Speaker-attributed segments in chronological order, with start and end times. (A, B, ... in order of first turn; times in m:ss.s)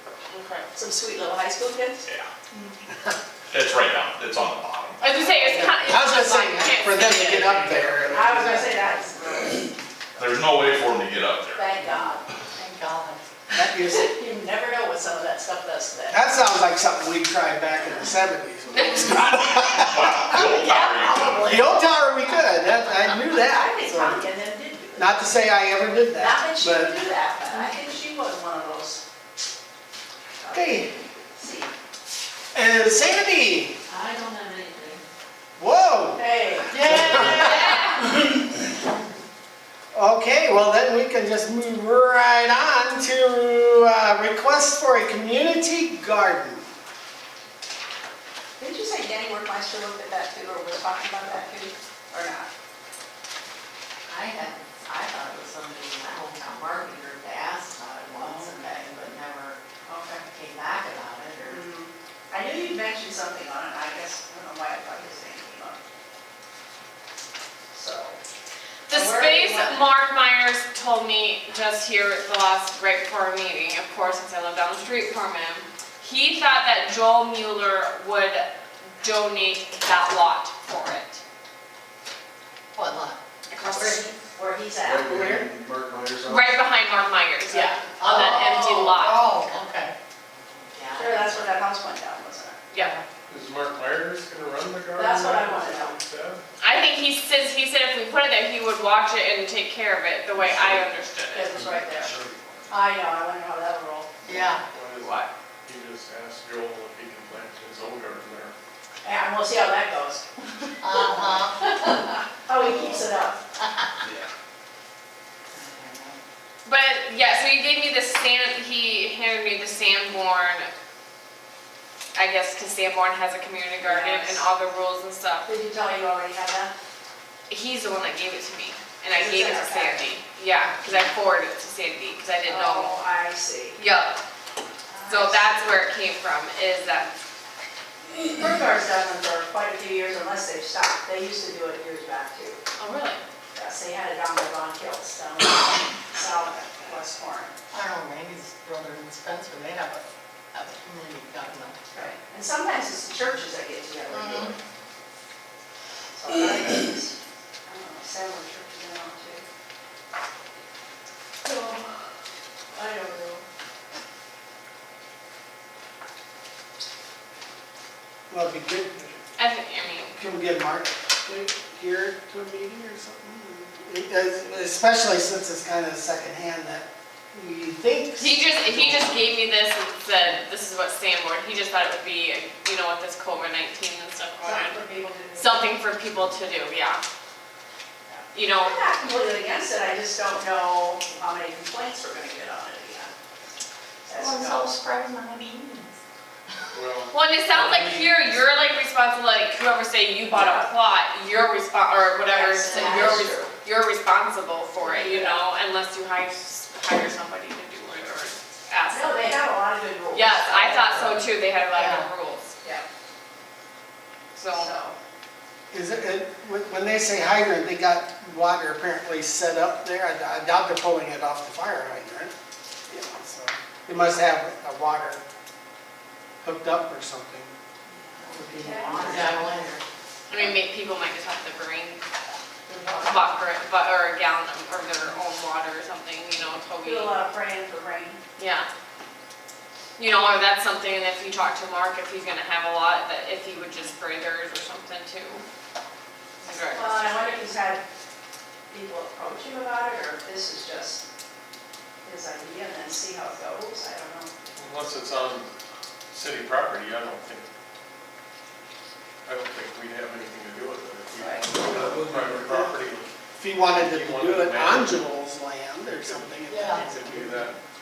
0:00.3-0:00.7 A
0:00.8-0:02.7 B
0:03.5-0:05.1 C
0:05.0-0:08.0 A
0:05.3-0:08.7 D
0:08.0-0:09.8 B
0:10.2-0:11.7 C
0:11.6-0:12.2 B
0:11.8-0:13.2 E
0:13.5-0:14.1 D
0:13.7-0:16.2 B
0:16.1-0:20.5 D
0:18.7-0:21.6 A
0:19.9-0:21.5 C
0:20.8-0:21.3 B
0:21.3-0:24.2 D
0:23.4-0:25.2 B
0:25.0-0:27.0 D
0:26.2-0:29.0 B
0:30.4-0:31.7 B
0:30.5-0:30.9 D
0:32.5-0:33.8 D
0:33.9-0:35.0 E
0:35.6-0:38.0 D
0:36.2-0:36.9 B
0:36.7-0:37.9 E
0:37.2-0:38.0 A
0:39.9-0:46.7 D
0:48.6-0:52.5 B
0:54.1-1:01.6 E
1:01.5-1:05.8 B
1:07.7-1:08.2 B
1:08.9-1:21.2 A
1:08.9-1:09.9 B
1:22.8-1:24.2 E
1:23.5-1:24.1 A
1:24.3-1:25.5 B
1:24.9-1:26.4 E
1:26.3-1:29.2 A
1:27.5-1:31.6 E
1:28.3-1:28.8 B
1:31.0-1:32.7 B
1:32.8-1:33.0 E
1:33.3-1:36.4 F
1:35.0-1:36.0 B
1:36.6-1:41.6 A
1:40.4-1:40.9 F
1:41.3-1:42.1 B
1:41.5-1:42.5 F
1:42.7-1:44.2 B
1:44.2-1:44.6 E
1:44.7-1:48.6 F
1:45.0-1:45.3 A
1:49.0-1:50.3 B
1:50.8-1:51.8 E
1:51.9-1:53.4 B
1:55.5-1:56.2 E
1:56.6-2:00.7 A
2:02.2-2:05.5 A
2:03.8-2:04.5 B
2:05.5-2:06.7 B
2:07.5-2:12.9 A
2:09.1-2:10.1 B
2:12.4-2:13.8 B
2:13.8-2:14.2 A
2:14.9-2:15.8 B
2:15.1-2:17.1 A
2:18.1-2:22.6 B
2:22.8-2:23.2 A
2:23.6-2:27.5 B
2:27.7-2:31.8 E
2:31.9-2:34.6 B
2:34.1-2:34.5 E
2:36.2-2:37.2 B
2:37.7-2:39.4 B
2:41.4-2:41.8 B
2:42.7-2:43.4 B
2:48.3-2:49.2 D
2:49.4-2:50.2 A
2:50.2-2:59.3 D
2:58.2-3:04.8 A
3:04.4-3:05.8 B
3:05.4-3:07.0 A
3:08.1-3:13.1 B
3:08.3-3:08.8 A
3:14.1-3:14.8 B
3:14.2-3:16.0 E
3:16.7-3:18.3 F
3:17.1-3:29.2 A
3:20.3-3:20.7 B
3:22.3-3:23.5 B
3:24.8-3:25.4 B
3:28.9-3:31.2 B
3:30.1-3:32.5 A
3:31.7-3:32.1 E
3:34.4-3:34.7 A
3:34.5-3:35.0 B
3:35.7-3:42.3 D
3:42.9-3:45.2 D
3:46.4-3:47.5 D
3:48.2-3:49.8 E
3:48.3-3:49.4 D
3:48.5-3:49.3 B
3:50.3-3:52.0 A
3:52.7-3:53.4 B
3:53.0-3:57.2 A
3:56.8-3:58.2 B
3:58.4-3:58.7 A
4:00.0-4:05.4 A
4:06.4-4:07.3 A
4:06.7-4:07.8 B
4:08.7-4:11.0 B
4:12.0-4:14.3 B
4:14.5-4:15.5 F
4:16.1-4:17.5 F
4:19.2-4:23.1 F
4:21.2-4:21.5 B
4:21.9-4:22.4 E
4:22.4-4:22.7 D
4:23.4-4:27.5 D
4:23.6-4:25.1 F
4:26.0-4:26.9 E
4:26.7-4:27.6 F